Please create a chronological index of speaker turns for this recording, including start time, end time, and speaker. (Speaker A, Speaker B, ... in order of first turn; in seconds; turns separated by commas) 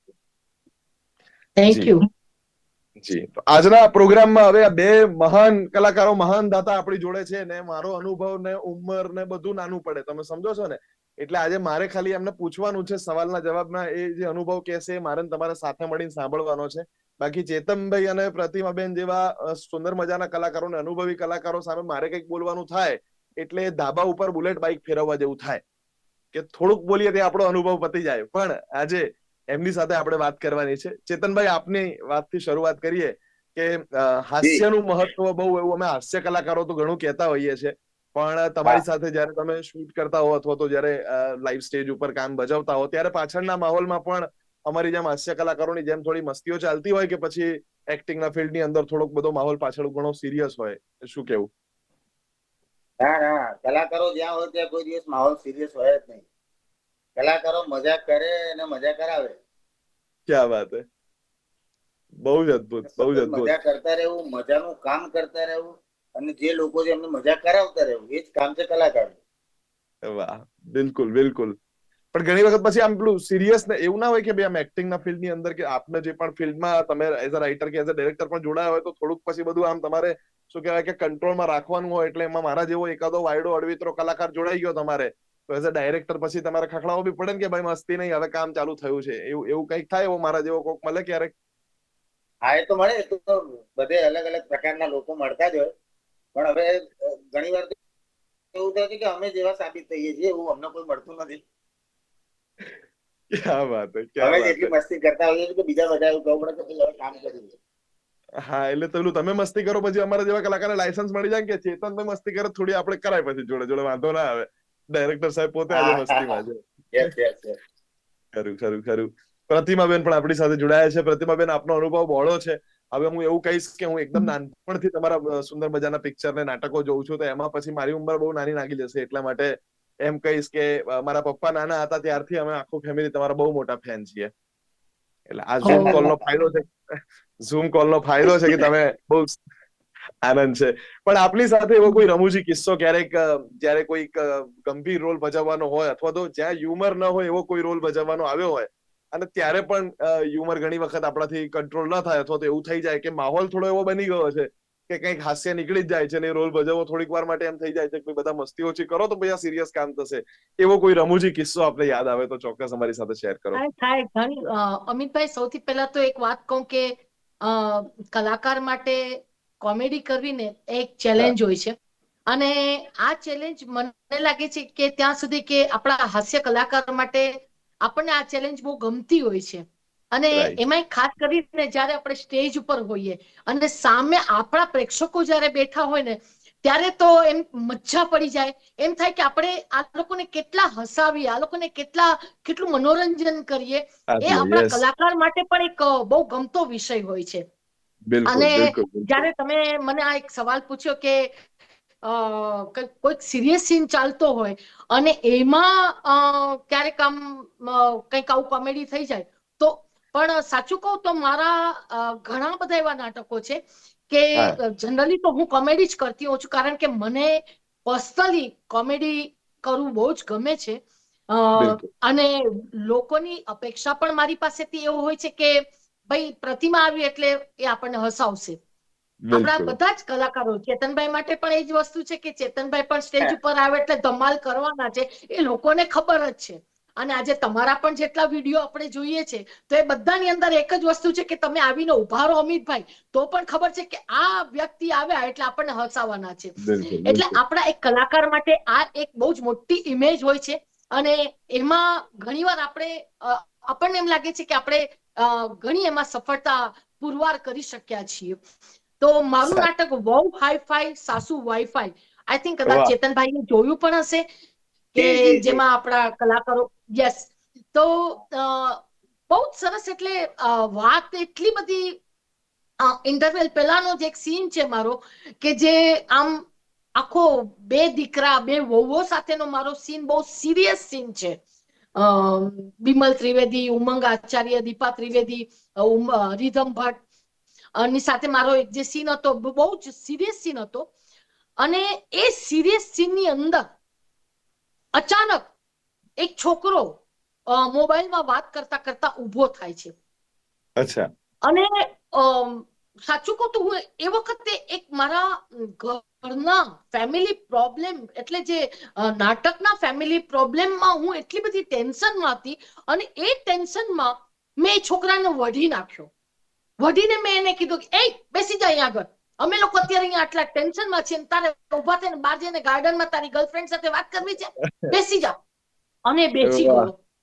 Speaker A: 1.6-2.1, Speaker B: 3.0-25.6, Speaker B: 26.3-51.5, Speaker C: 53.0-56.2, Speaker C: 57.2-59.4, Speaker B: 60.3-60.8, Speaker B: 62.2-63.5, Speaker C: 63.0-69.2, Speaker B: 70.0-71.6, Speaker B: 72.1-91.3, Speaker C: 92.5-95.7, Speaker C: 96.3-97.7, Speaker C: 98.5-101.4, Speaker B: 103.3-104.7, Speaker C: 104.2-107.5, Speaker B: 108.5-117.1, Speaker C: 115.7-116.4, Speaker C: 116.9-117.6, Speaker B: 118.3-134.3, Speaker B: 135.3-136.7, Speaker A: 135.6-136.0, Speaker C: 135.7-136.3, Speaker B: 137.4-139.4, Speaker B: 140.2-163.6, Speaker A: 163.5-171.8, Speaker A: 172.3-177.3, Speaker A: 177.8-197.4, Speaker B: 180.3-180.6, Speaker B: 194.1-194.8, Speaker B: 198.1-199.3, Speaker A: 198.3-201.3, Speaker A: 202.0-228.6, Speaker B: 221.6-221.8, Speaker B: 229.2-229.8, Speaker A: 229.3-258.4, Speaker B: 246.6-247.4, Speaker A: 259.0-264.2, Speaker B: 262.6-262.9, Speaker A: 264.9-272.0, Speaker C: 265.0-265.6, Speaker A: 272.8-276.5, Speaker A: 277.0-281.4, Speaker A: 282.0-287.0, Speaker A: 287.8-290.9, Speaker A: 291.6-293.6, Speaker A: 294.9-295.5, Speaker A: 296.2-299.9, Speaker B: 300.8-301.1, Speaker A: 301.4-316.1, Speaker A: 316.8-325.4, Speaker A: 326.1-326.9, Speaker B: 326.4-326.9